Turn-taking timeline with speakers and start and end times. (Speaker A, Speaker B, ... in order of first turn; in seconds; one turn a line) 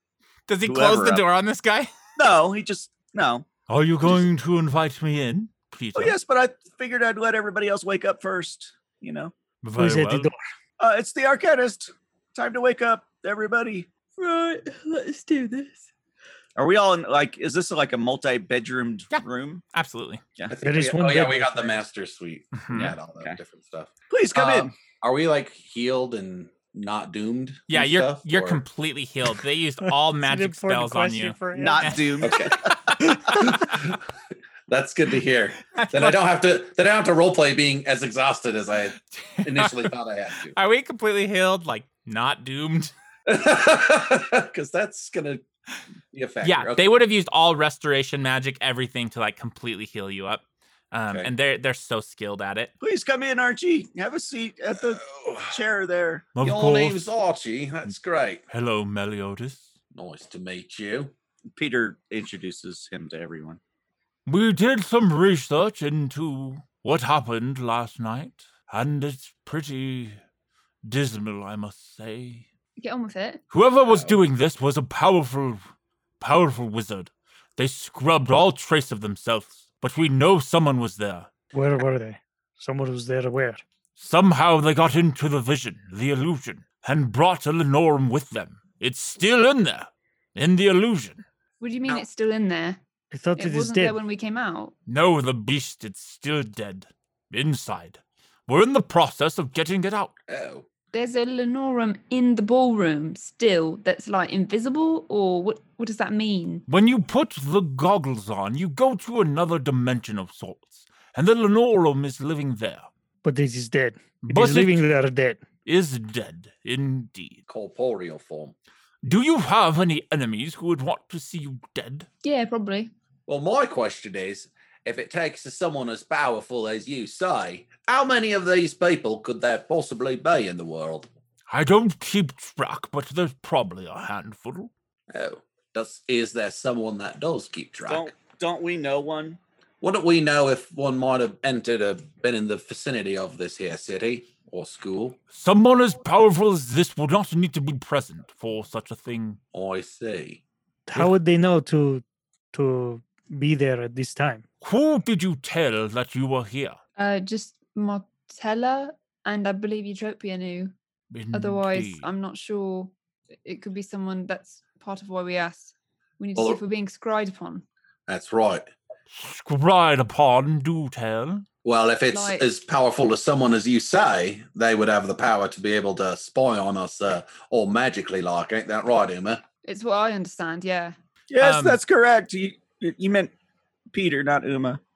Speaker A: 0.5-1.9
Speaker B: 0.7-1.2
Speaker B: 2.2-3.5
Speaker A: 3.7-6.2
Speaker B: 6.0-9.3
Speaker A: 9.6-10.3
Speaker C: 9.8-10.4
Speaker B: 10.8-15.8
Speaker B: 16.6-19.6
Speaker A: 19.1-20.2
Speaker D: 20.5-28.6
Speaker C: 20.6-21.8
Speaker A: 22.6-22.9
Speaker B: 22.7-23.4
Speaker B: 24.1-24.7
Speaker A: 27.7-33.7
Speaker C: 30.2-32.0
Speaker B: 31.6-32.5
Speaker D: 32.2-34.0
Speaker D: 34.7-40.5
Speaker A: 35.7-36.2
Speaker A: 39.2-39.9
Speaker A: 40.5-42.9
Speaker D: 43.3-45.4
Speaker D: 46.1-46.8
Speaker A: 46.4-52.7
Speaker B: 52.8-56.3
Speaker D: 54.9-55.5
Speaker A: 56.4-57.0
Speaker D: 56.4-58.4
Speaker A: 58.5-59.7
Speaker D: 59.9-61.1
Speaker B: 61.5-63.6
Speaker A: 64.3-70.2
Speaker A: 70.8-72.5
Speaker E: 72.8-73.4
Speaker A: 73.5-75.6
Speaker D: 73.9-74.2
Speaker A: 76.2-81.3
Speaker C: 81.5-83.6
Speaker A: 84.0-91.2
Speaker E: 91.6-92.8
Speaker C: 93.1-94.0
Speaker E: 93.4-94.7
Speaker A: 94.9-100.1
Speaker D: 100.3-100.7
Speaker E: 100.9-106.6
Speaker A: 106.7-112.9
Speaker C: 113.2-115.4
Speaker A: 114.2-114.8
Speaker A: 115.7-117.4
Speaker D: 117.5-118.5
Speaker A: 119.0-122.1
Speaker E: 122.2-122.9
Speaker D: 123.3-131.1
Speaker A: 131.5-134.7
Speaker D: 135.1-138.1
Speaker B: 137.9-139.4
Speaker D: 139.8-145.2
Speaker A: 145.3-149.4
Speaker D: 149.5-150.4
Speaker C: 150.9-154.4
Speaker A: 154.6-156.8
Speaker E: 157.0-160.7
Speaker A: 161.1-162.1
Speaker E: 161.3-167.7
Speaker D: 168.1-168.7
Speaker A: 169.1-171.4
Speaker D: 171.7-179.4
Speaker E: 172.1-172.5
Speaker E: 179.6-180.9
Speaker B: 181.3-183.3
Speaker A: 181.4-181.8
Speaker B: 183.9-184.8